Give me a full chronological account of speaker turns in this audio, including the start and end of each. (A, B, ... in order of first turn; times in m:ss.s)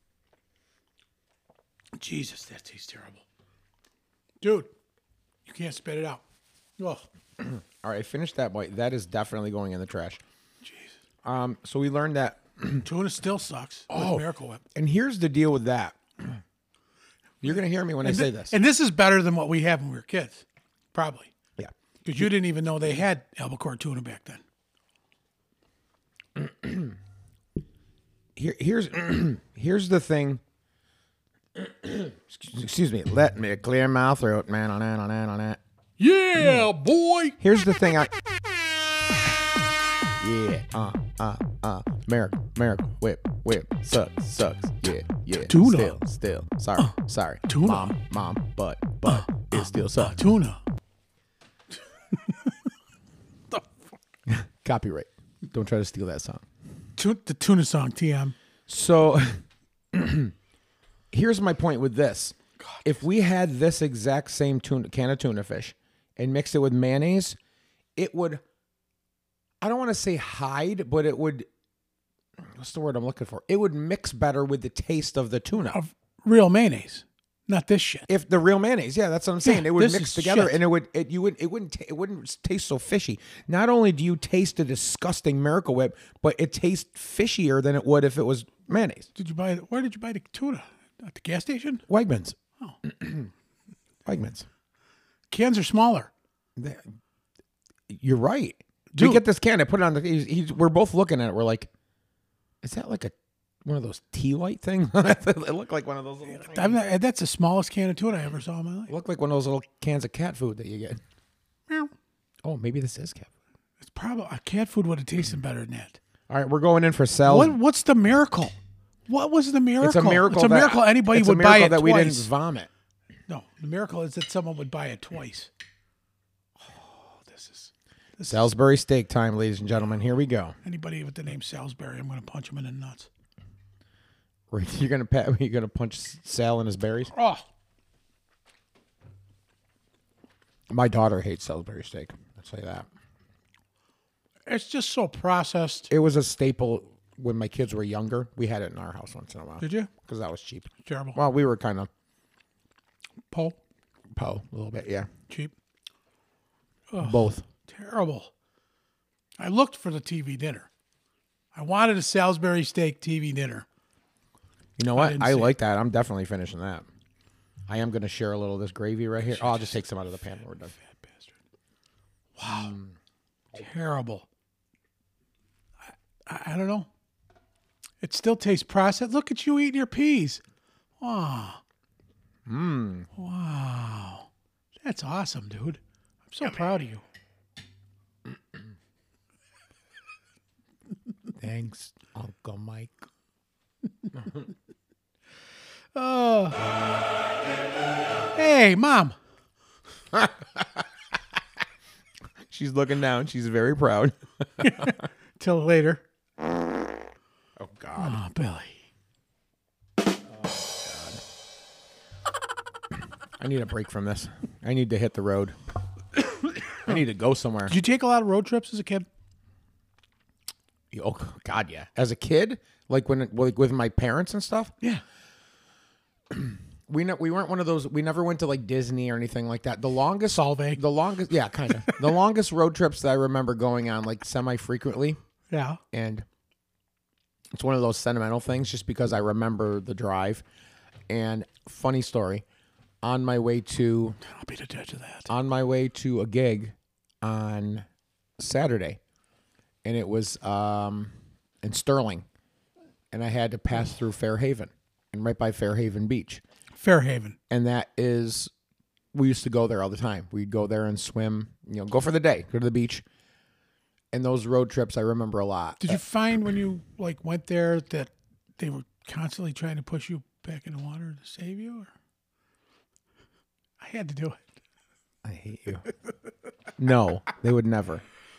0:02.0-0:03.2 A
0:04.4-0:04.7 A
0:05.5-0:06.2 A
0:06.8-0:07.1 A
0:07.4-0:10.2 B
0:10.6-0:11.0 A
0:11.2-0:12.9 B
0:12.8-0:14.6 A
0:13.9-0:16.4 B
0:17.4-0:18.6 B
0:18.0-0:21.3 A
0:21.6-0:22.3 B
0:22.0-0:24.4 A
0:26.4-0:27.0 B
0:28.4-0:30.4 B
0:31.6-0:35.6 B
0:36.0-0:37.4 A
0:36.4-0:36.7 B
0:37.4-0:38.1 B
0:40.2-0:50.3 B
0:45.4-0:46.0 A
0:47.5-0:47.9 A
0:49.0-0:50.6 A
0:52.1-0:52.7 A
0:53.5-0:53.8 A
0:54.3-0:56.4 B
0:57.0-0:58.4 A
0:58.7-1:00.3 B
1:01.1-1:07.4 B
1:02.6-1:02.9 A
1:08.0-1:08.4 B
1:09.6-1:11.5 B
1:12.4-1:15.8 B
1:15.6-1:18.1 A
1:18.1-1:29.1 B
1:19.4-1:20.6 A
1:29.2-1:31.8 A
1:31.9-1:33.3 B
1:34.1-1:34.5 B
1:35.3-1:36.1 A
1:36.6-1:36.8 B
1:37.9-1:41.7 B
1:38.9-1:39.2 A
1:42.6-1:46.8 B
1:46.3-1:48.9 A
1:48.9-1:51.0 B
1:52.4-1:53.3 B
1:53.8-1:56.0 A
1:56.3-1:57.6 B
1:57.2-1:58.6 A
1:59.1-2:02.3 A
1:59.8-2:02.7 B
2:03.3-2:05.5 A
2:06.6-2:08.5 A
2:08.3-2:10.6 B
2:10.6-2:13.1 A
2:14.5-2:17.1 B
2:17.1-2:17.4 A
2:20.7-2:22.9 B
2:24.5-2:25.9 A
2:25.9-2:31.9 B
2:29.6-2:29.9 A
2:30.8-2:31.2 A
2:33.3-2:33.6 A
2:34.2-2:35.1 B
2:36.9-2:38.3 A
2:37.0-2:37.4 B
2:39.4-2:40.7 A
2:41.5-2:43.7 A
2:44.8-2:46.9 B
2:44.9-2:45.6 A
2:47.7-2:50.7 B
2:49.3-2:49.8 A
2:50.6-2:51.3 A
2:52.4-2:52.8 A
2:52.4-2:53.0 B
2:53.5-2:54.3 A
2:56.3-2:56.9 A
2:58.0-3:00.4 A
3:01.0-3:01.6 A
3:02.5-3:03.1 B
3:03.2-3:04.3 A
3:04.8-3:07.0 A
3:11.4-3:13.0 B
3:14.2-3:14.4 B
3:15.9-3:16.6 A
3:18.4-3:19.2 A
3:20.1-3:20.8 B
3:22.5-3:25.0 B
3:24.6-3:26.0 A
3:27.6-3:28.2 B
3:28.0-3:28.8 A
3:30.3-3:31.2 B
3:33.4-3:35.6 B
3:36.7-3:37.7 B
3:37.7-3:39.1 A
3:40.9-3:44.7 B
3:46.3-3:55.2 B
3:50.3-3:50.8 A
3:55.5-3:55.8 A
3:55.9-3:56.2 B
3:57.5-4:00.4 B
4:01.1-4:02.4 B
4:03.0-4:04.2 B
4:04.2-4:05.3 A
4:05.3-4:07.8 B
4:08.4-4:09.0 B
4:09.8-4:12.2 B
4:13.1-4:16.4 B
4:16.8-4:17.4 A
4:17.5-4:18.5 B
4:19.1-4:23.0 B
4:24.1-4:26.0 B
4:25.8-4:31.9 A
4:33.8-4:34.5 A
4:35.2-4:35.9 B
4:36.8-4:38.0 B